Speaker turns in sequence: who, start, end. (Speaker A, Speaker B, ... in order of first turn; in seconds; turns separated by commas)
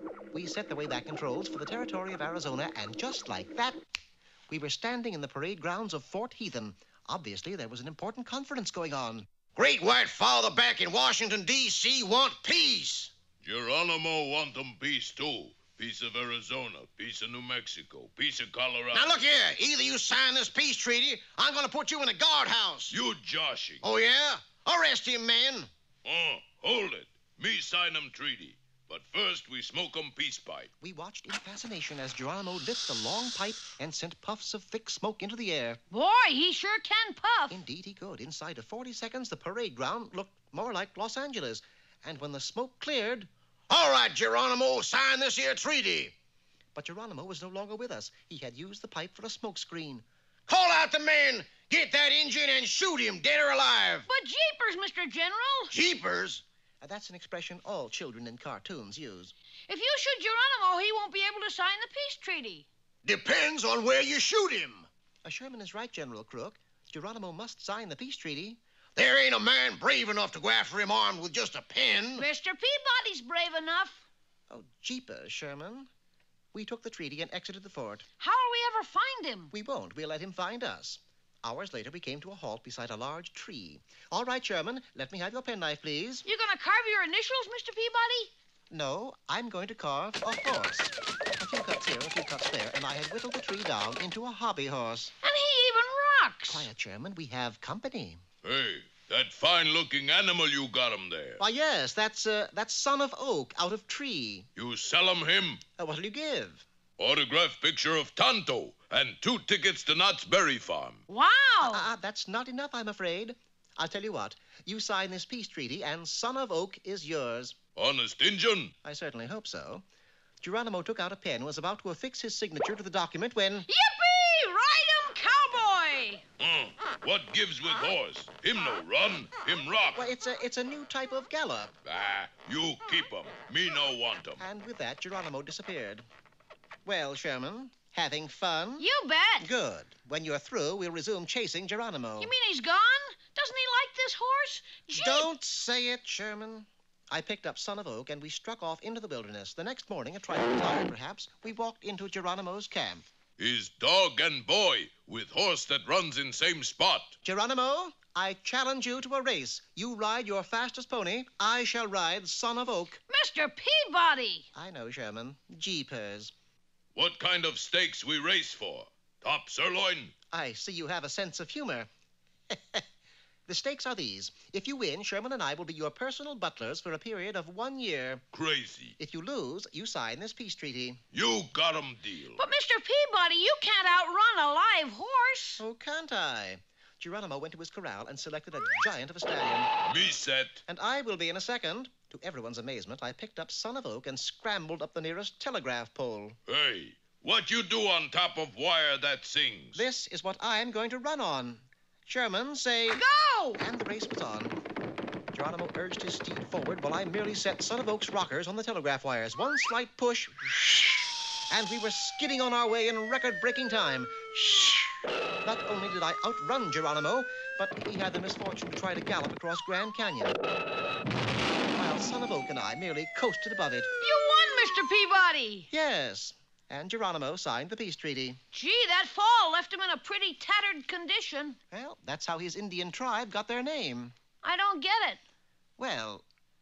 Speaker A: 0.3-3.8, Speaker A: 4.5-9.3, Speaker B: 9.5-13.1, Speaker C: 13.4-19.2, Speaker B: 18.9-22.9, Speaker C: 22.9-23.8, Speaker B: 23.8-25.7, Speaker C: 26.0-30.7, Speaker A: 30.8-35.8, Speaker D: 35.9-37.6, Speaker A: 37.5-43.3, Speaker B: 43.7-46.1, Speaker A: 46.7-50.0, Speaker B: 50.5-54.0, Speaker D: 54.0-55.7, Speaker B: 55.7-56.4, Speaker A: 56.8-59.3, Speaker D: 59.7-62.7, Speaker B: 63.0-64.9, Speaker A: 65.2-68.6, Speaker B: 69.0-72.2, Speaker D: 72.1-74.0, Speaker A: 74.5-75.9, Speaker A: 76.5-78.0, Speaker D: 78.2-79.5, Speaker A: 79.5-86.2, Speaker D: 86.2-88.3, Speaker A: 88.7-95.1, Speaker D: 95.2-96.7, Speaker A: 96.5-98.2, Speaker C: 98.4-101.4, Speaker A: 101.4-104.5, Speaker C: 104.5-105.6, Speaker A: 105.8-106.6, Speaker C: 107.0-111.0, Speaker D: 111.1-111.9, Speaker A: 111.6-117.5, Speaker C: 117.8-118.7, Speaker A: 118.8-119.8, Speaker A: 120.4-123.7, Speaker D: 123.7-126.2, Speaker C: 126.4-130.1, Speaker A: 129.9-131.7, Speaker C: 131.8-134.4, Speaker A: 134.4-136.0, Speaker A: 136.8-138.8, Speaker D: 138.8-139.5, Speaker A: 139.4-142.3, Speaker D: 142.2-145.3, Speaker A: 144.9-153.0, Speaker C: 153.4-157.1, Speaker A: 157.2-163.0, Speaker D: 163.1-164.5, Speaker A: 164.5-166.3, Speaker C: 166.9-170.1, Speaker A: 170.3-171.9, Speaker A: 172.5-172.8, Speaker A: 173.5-178.2, Speaker C: 178.3-178.9, Speaker A: 179.0-181.0, Speaker C: 181.1-182.4, Speaker D: 182.4-185.6, Speaker A: 185.6-189.7, Speaker C: 189.9-190.6, Speaker A: 190.7-196.4, Speaker C: 196.5-199.8, Speaker A: 199.7-203.0, Speaker D: 202.9-203.6, Speaker A: 203.6-204.6, Speaker A: 205.3-220.4, Speaker A: 221.7-223.9, Speaker D: 224.0-225.7, Speaker A: 225.7-228.4, Speaker D: 228.5-231.6, Speaker A: 231.7-234.1, Speaker D: 234.4-235.2, Speaker A: 235.8-236.2